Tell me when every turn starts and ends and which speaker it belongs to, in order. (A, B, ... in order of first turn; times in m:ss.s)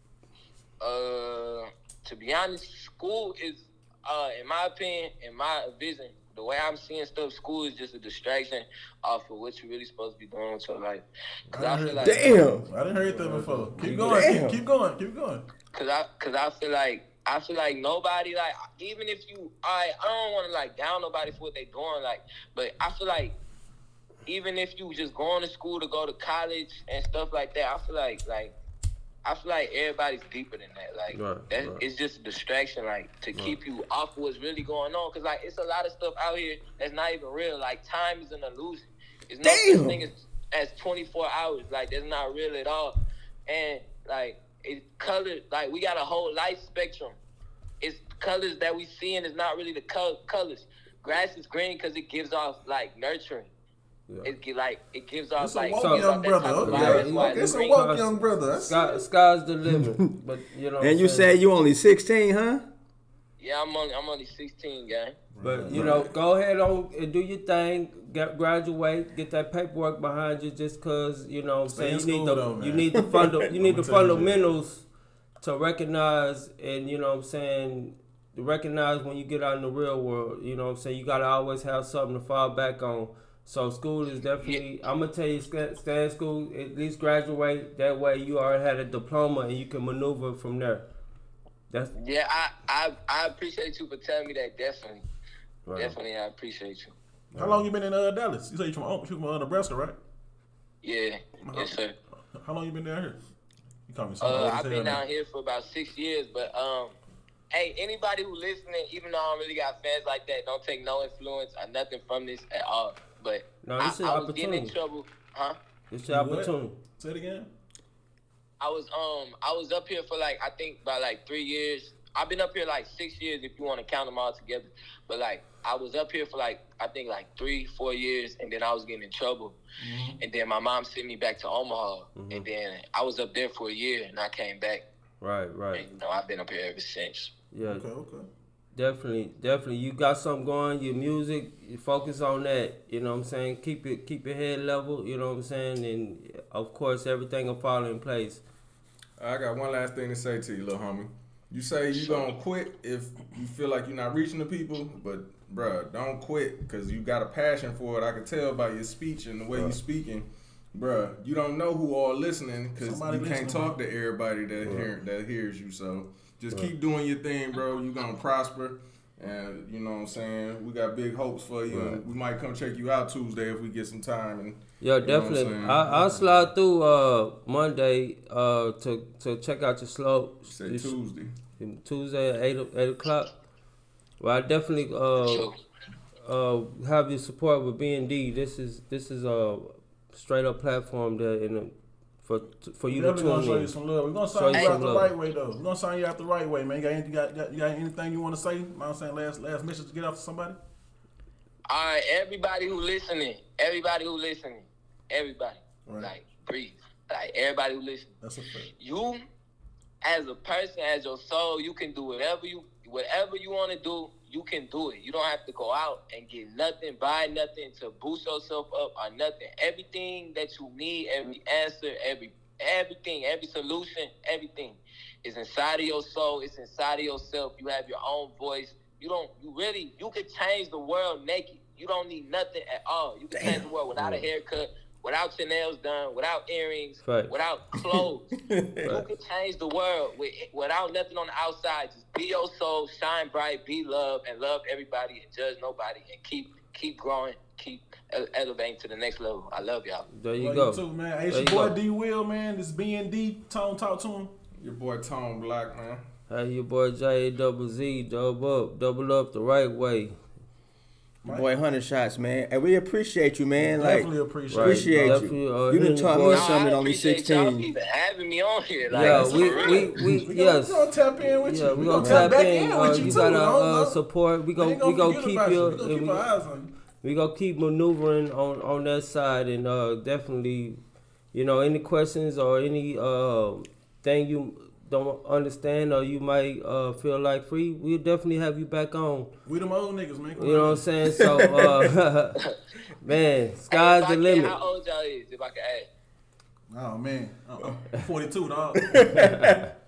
0:00.8-0:12.4 A
0:11.5-0:15.4 B
0:12.0-0:12.7 C
0:13.0-0:14.3 D
0:14.0-0:14.6 C
0:15.7-0:23.3 A
0:24.2-0:28.5 A
0:29.2-0:43.0 A
0:31.1-0:31.8 D
0:39.4-0:40.0 C
0:43.5-0:47.2 A
0:47.8-0:53.5 A
0:54.1-0:54.3 D
0:54.2-0:57.8 A
0:55.4-0:59.0 B
0:55.8-1:01.4 D
1:00.8-1:02.6 C
1:03.4-1:05.2 A
1:05.3-1:06.1 B
1:05.4-1:14.9 D
1:11.7-1:13.0 B
1:13.6-1:14.6 B
1:15.4-1:30.8 D
1:32.0-1:35.0 A
1:35.7-1:36.0 D
1:35.8-1:36.9 A
1:37.3-1:37.7 D
1:37.4-1:40.0 B
1:40.8-1:41.9 A
1:41.4-1:41.7 B
1:42.3-1:43.2 B
1:43.9-1:45.0 B
1:44.2-1:47.0 A
1:47.5-1:55.6 A
1:53.6-1:54.7 D
1:55.9-1:56.8 D
1:56.0-1:57.5 B
1:58.6-2:09.6 A
2:09.8-2:10.2 B
2:10.2-2:14.8 A
2:12.2-2:12.5 D
2:15.2-2:15.8 D
2:15.8-2:17.3 A
2:17.5-2:17.8 D
2:17.6-2:18.3 B
2:18.8-2:28.4 D
2:29.2-2:56.0 E
2:42.8-2:43.8 B
2:44.6-2:44.9 D
2:51.7-2:52.0 D
2:54.8-3:00.9 D
2:55.8-2:56.5 B
3:00.5-3:01.3 E
3:01.6-3:03.3 D
3:04.2-3:05.5 D
3:05.2-3:05.5 A
3:06.2-3:13.7 D
3:12.9-3:20.6 B
3:14.3-3:15.1 D
3:21.7-3:28.1 A
3:25.9-3:26.1 B
3:28.2-3:28.7 B
3:28.8-3:29.2 A
3:30.0-3:58.3 A
3:53.3-3:53.6 C
3:54.0-3:54.2 D
3:57.0-3:57.3 D
3:57.9-3:58.9 C
3:58.8-4:10.0 A
4:10.1-4:11.8 D
4:10.3-4:14.3 B
4:14.6-4:16.0 E
4:16.3-4:20.2 D
4:21.2-4:27.7 C
4:23.6-4:25.3 B
4:24.5-4:26.5 D
4:26.2-4:29.9 A
4:28.9-4:36.3 D
4:29.0-4:34.0 B
4:32.0-4:32.3 C
4:34.5-4:36.7 B
4:37.0-4:40.8 D
4:41.3-4:49.3 D
4:49.5-4:50.9 B
4:50.4-4:52.4 D
4:53.0-4:54.5 D
4:53.7-4:55.9 A
4:56.7-4:59.0 B
4:58.8-4:59.6 C
4:59.0-4:59.7 D